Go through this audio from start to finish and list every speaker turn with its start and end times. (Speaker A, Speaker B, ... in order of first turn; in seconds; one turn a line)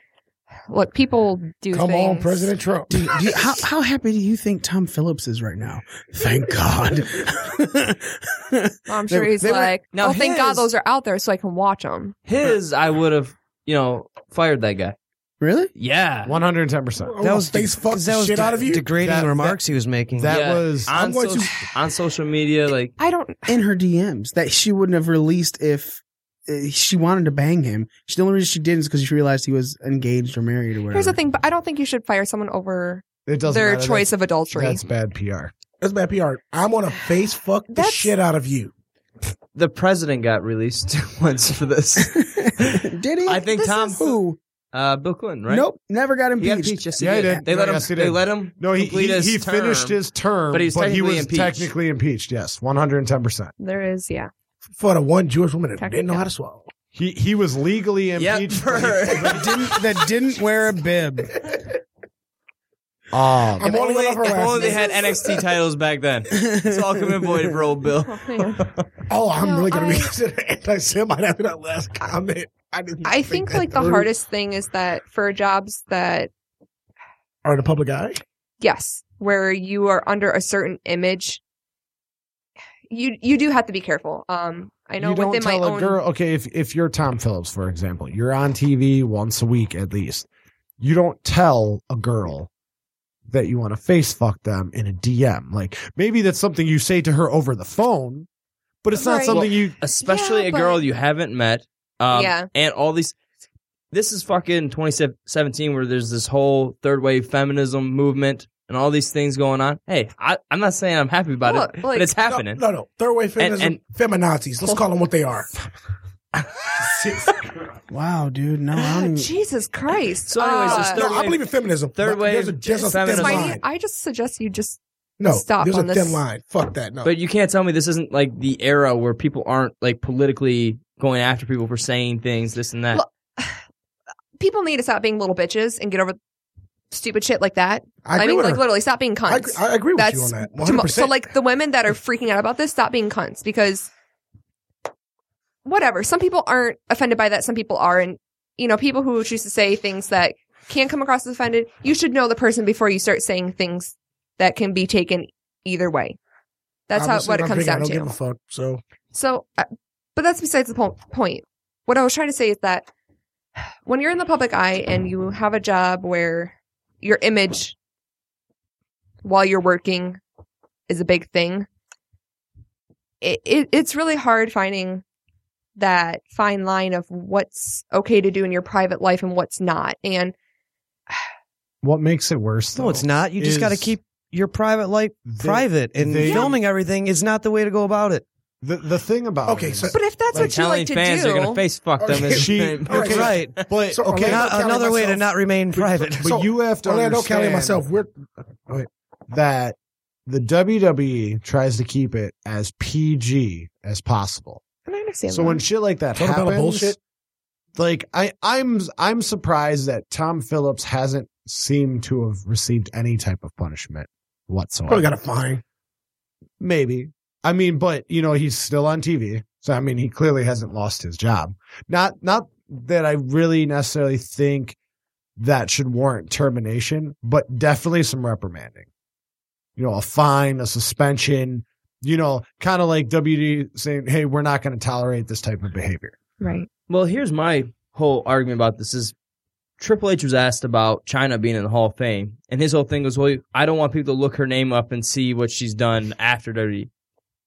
Speaker A: 0.7-2.5
Speaker B: 1.7-3.1
Speaker C: 2.9-9.7
Speaker A: 8.9-12.2
Speaker D: 9.9-10.7
Speaker D: 12.3-15.0
Speaker C: 15.4-15.7
Speaker D: 15.8-16.4
Speaker E: 16.3-17.2
Speaker B: 17.0-18.9
Speaker F: 17.2-20.3
Speaker E: 18.9-19.6
Speaker E: 20.1-20.9
Speaker D: 20.3-22.9
Speaker B: 20.9-21.5
Speaker A: 23.0-23.6
Speaker C: 23.5-31.2
Speaker A: 30.9-34.8
Speaker E: 33.2-35.5
Speaker B: 35.8-38.7
Speaker A: 37.7-38.1
Speaker D: 39.5-44.1
Speaker C: 42.1-44.4
Speaker A: 43.5-44.2
Speaker D: 44.7-45.7
Speaker C: 45.5-47.3
Speaker D: 46.4-50.0
Speaker E: 47.0-53.5
Speaker D: 50.5-51.7
Speaker A: 53.6-54.3
Speaker B: 54.7-56.7
Speaker A: 55.8-56.3
Speaker E: 56.9-59.4
Speaker D: 58.2-59.7
Speaker C: 59.2-61.4
Speaker E: 63.1-63.8
Speaker B: 63.6-65.4
Speaker D: 63.6-68.8
Speaker A: 64.5-64.9
Speaker C: 66.3-67.2
Speaker A: 68.1-68.6
Speaker B: 69.1-74.1
Speaker A: 69.4-70.1
Speaker A: 73.0-76.3
Speaker B: 77.4-78.2
Speaker A: 78.6-81.4
Speaker A: 82.9-86.0
Speaker E: 85.0-90.3
Speaker E: 90.8-92.5
Speaker E: 93.3-98.3
Speaker E: 98.8-99.8
Speaker A: 98.9-100.8
Speaker D: 99.3-103.2
Speaker A: 102.1-102.5
Speaker D: 103.9-112.7
Speaker A: 111.4-112.1
Speaker B: 112.2-115.6
Speaker D: 113.4-113.8
Speaker C: 117.9-119.3
Speaker A: 118.8-121.1
Speaker D: 120.3-123.6
Speaker B: 120.6-123.6
Speaker A: 122.8-126.2
Speaker B: 125.2-127.1
Speaker D: 127.0-133.0
Speaker A: 132.9-133.6
Speaker A: 134.4-136.2
Speaker A: 136.9-143.9
Speaker B: 138.0-138.7
Speaker B: 139.3-141.2
Speaker A: 145.7-156.2
Speaker A: 156.9-158.1
Speaker B: 156.9-158.8
Speaker A: 159.1-162.9
Speaker A: 163.8-167.8
Speaker A: 169.2-170.2
Speaker A: 170.9-171.7
Speaker A: 173.2-175.0
Speaker A: 175.8-180.3
Speaker E: 181.8-184.0
Speaker F: 182.8-188.2
Speaker E: 185.2-186.5
Speaker A: 186.2-186.5
Speaker E: 188.6-190.5
Speaker B: 189.4-190.0
Speaker A: 189.9-191.6
Speaker D: 190.3-193.3
Speaker B: 192.0-198.9
Speaker E: 192.2-194.8
Speaker F: 193.1-193.7
Speaker F: 194.2-196.4
Speaker E: 196.2-197.8
Speaker E: 199.3-204.7
Speaker A: 204.9-205.6
Speaker E: 205.3-207.0
Speaker B: 206.2-207.0
Speaker E: 207.8-215.1
Speaker B: 214.9-215.6
Speaker E: 216.6-224.8
Speaker E: 225.4-228.9
Speaker E: 229.8-236.2
Speaker A: 236.4-236.7
Speaker D: 236.9-239.1
Speaker D: 239.8-246.9